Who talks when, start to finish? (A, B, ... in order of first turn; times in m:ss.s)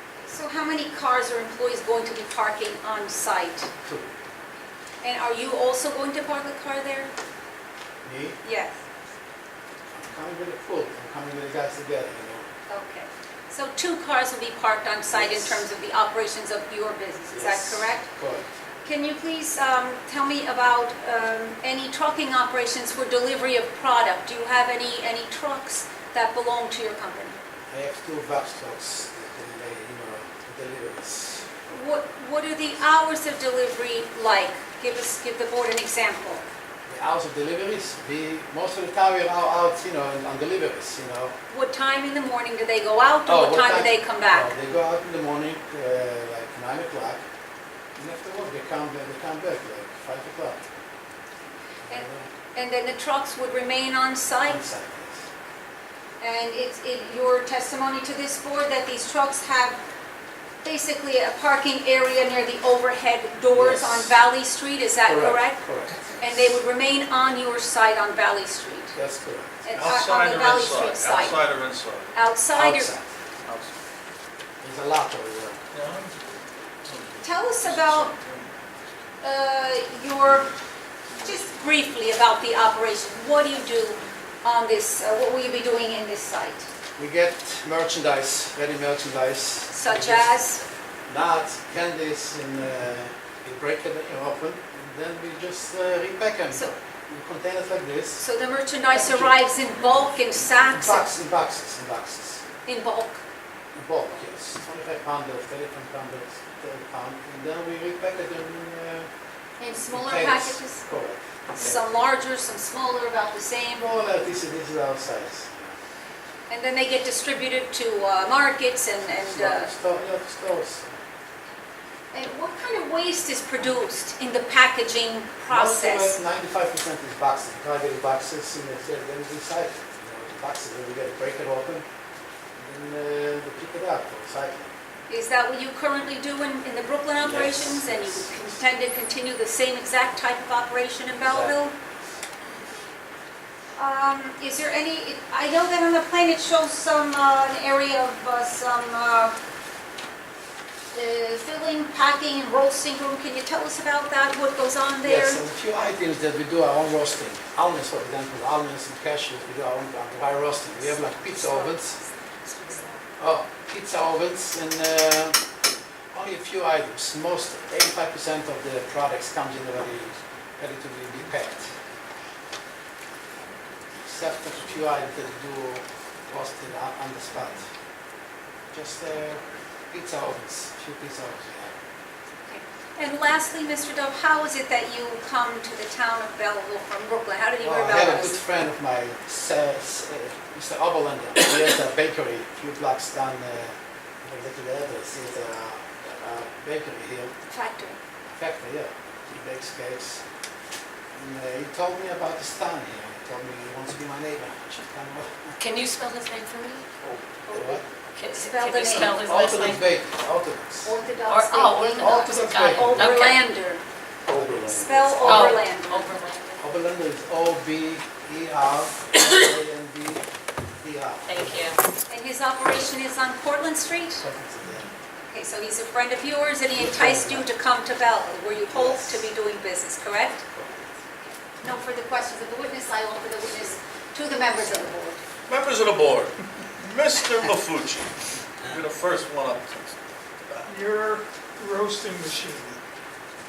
0:00.2-0:03.7 A
0:03.8-0:04.1 B
0:05.0-0:07.1 A
0:08.0-0:08.4 B
0:08.4-0:08.8 A
0:09.9-0:12.5 B
0:12.7-0:18.1 A
0:15.1-0:15.6 B
0:17.3-0:18.5 B
0:18.8-0:27.4 A
0:27.7-0:31.5 B
0:31.7-0:36.4 A
0:36.9-0:41.3 B
0:41.5-0:44.5 A
0:43.3-0:47.2 B
0:48.0-0:50.6 B
0:51.8-0:52.3 B
0:51.9-0:54.6 A
0:54.4-0:55.2 B
0:56.2-0:59.8 A
1:00.6-1:05.6 A
1:03.5-1:04.2 B
1:05.1-1:06.6 B
1:06.2-1:09.0 A
1:09.0-1:09.6 B
1:09.6-1:11.4 A
1:09.7-1:12.1 C
1:12.1-1:12.9 A
1:12.5-1:13.1 B
1:13.4-1:13.7 C
1:14.6-1:15.6 B
1:15.7-1:16.2 C
1:16.8-1:18.8 C
1:17.2-1:18.1 A
1:19.2-1:20.5 A
1:20.2-1:20.5 C
1:21.1-1:21.8 C
1:21.2-1:26.7 A
1:27.0-1:30.4 B
1:29.7-1:30.6 A
1:31.1-1:38.2 B
1:38.2-1:41.1 A
1:38.9-1:39.3 B
1:40.0-1:42.4 B
1:42.7-1:43.2 A
1:43.7-1:49.1 B
1:49.6-1:50.9 A
1:49.8-1:51.8 B
1:51.6-1:53.9 A
1:53.8-1:55.8 B
1:56.5-1:59.7 A
1:59.0-2:01.0 B
2:02.1-2:06.2 A
2:05.5-2:11.8 B
2:12.6-2:14.7 B
2:15.1-2:21.7 A
2:17.2-2:18.6 B
2:21.2-2:21.6 B
2:23.8-2:29.3 A
2:30.9-2:35.4 A
2:35.0-2:42.0 B
2:40.8-2:43.1 A
2:43.2-2:45.4 B
2:46.1-2:51.7 B
2:54.0-2:57.7 B
2:58.7-3:01.8 B
3:02.5-3:08.4 A
3:07.6-3:17.3 B
3:17.5-3:18.0 A
3:18.3-3:20.2 B
3:21.1-3:25.6 B
3:25.6-3:26.9 D
3:27.5-3:29.2 A
3:27.5-3:27.8 B
3:28.2-3:29.9 D
3:28.9-3:31.0 B
3:30.8-3:33.8 A
3:31.3-3:33.5 D
3:31.8-3:33.1 B
3:34.3-3:35.6 B
3:34.7-3:36.2 A
3:35.2-3:36.6 D
3:36.6-3:40.2 B
3:40.8-3:41.8 B
3:41.2-3:41.8 D
3:42.1-3:44.2 A
3:44.2-3:44.9 B
3:45.2-3:50.4 A
3:46.7-3:47.5 B
3:48.7-3:49.3 B
3:50.5-3:50.9 B
3:51.2-3:55.2 A
3:55.5-4:00.7 C
4:00.7-4:02.8 E